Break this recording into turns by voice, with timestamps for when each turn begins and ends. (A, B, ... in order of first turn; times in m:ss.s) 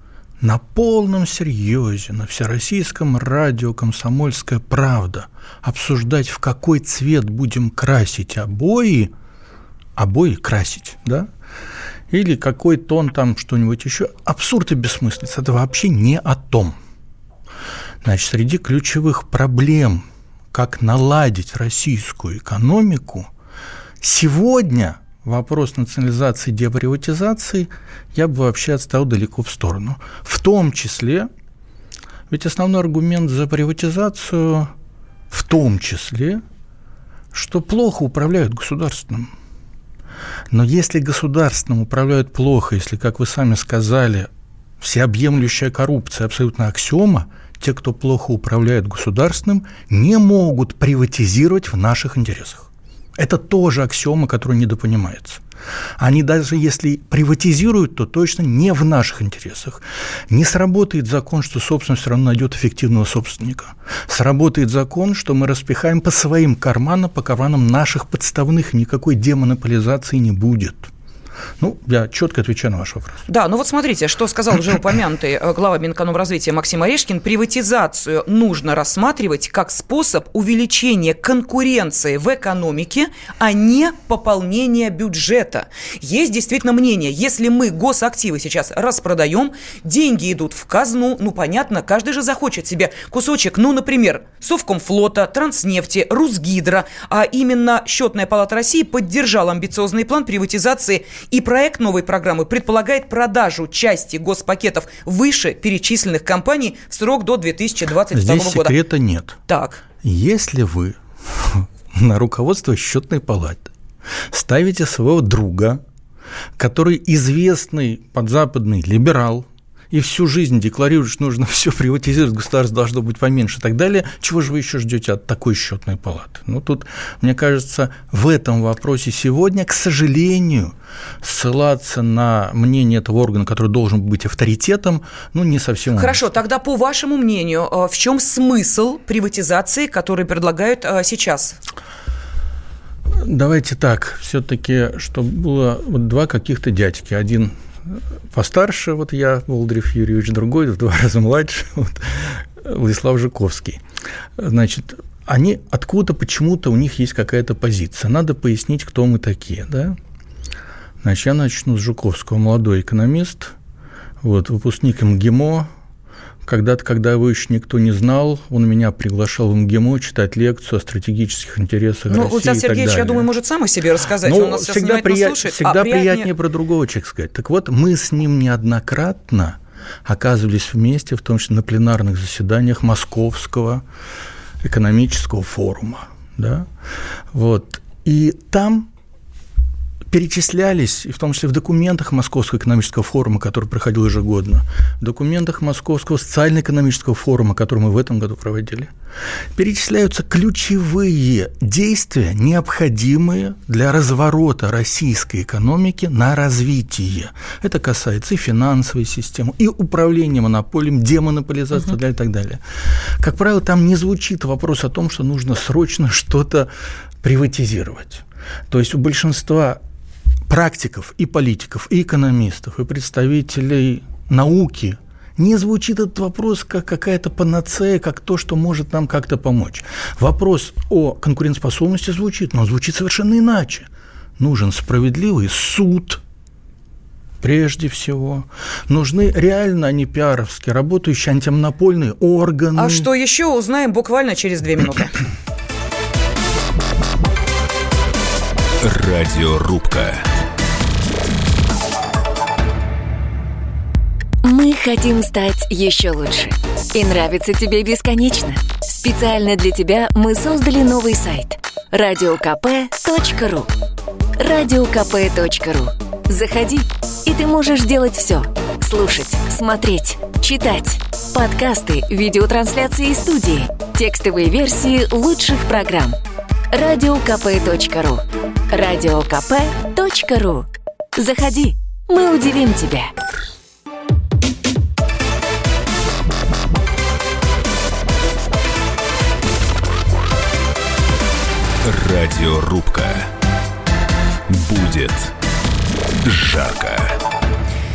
0:00.4-0:09.1 A
0:10.0-0:11.3 A
0:12.1-0:16.8 A
0:18.0-0:23.3 A
0:24.0-0:31.3 A
0:32.3-0:34.7 A
0:35.3-0:36.4 A
0:37.3-0:39.3 A
0:40.5-0:44.3 A
0:44.8-0:55.4 A
0:56.0-1:10.9 A
1:11.6-1:13.2 A
1:13.3-1:48.8 B
1:48.1-1:49.4 A
1:49.5-1:49.8 B
1:50.0-1:53.7 A
1:54.3-1:55.8 A
1:56.6-2:16.3 A
2:16.0-2:21.6 B
2:23.2-2:33.8 A
2:34.4-2:40.0 A
2:41.0-2:43.5 A
2:44.2-2:45.7 A
2:46.4-2:53.3 A
2:52.1-2:56.3 B
2:54.2-3:03.8 A
3:04.6-3:06.7 A
3:07.3-3:08.9 A
3:10.1-3:18.9 A
3:19.6-3:36.7 A
3:37.2-3:39.8 A
3:40.5-3:56.2 A
3:57.4-4:03.1 A
4:02.8-4:05.2 B
4:08.8-4:10.3 C
4:14.4-4:23.7 D
4:24.4-4:36.2 D
4:36.7-4:43.1 D
4:51.8-4:53.3 C
4:54.5-4:55.3 C
4:56.2-4:57.2 C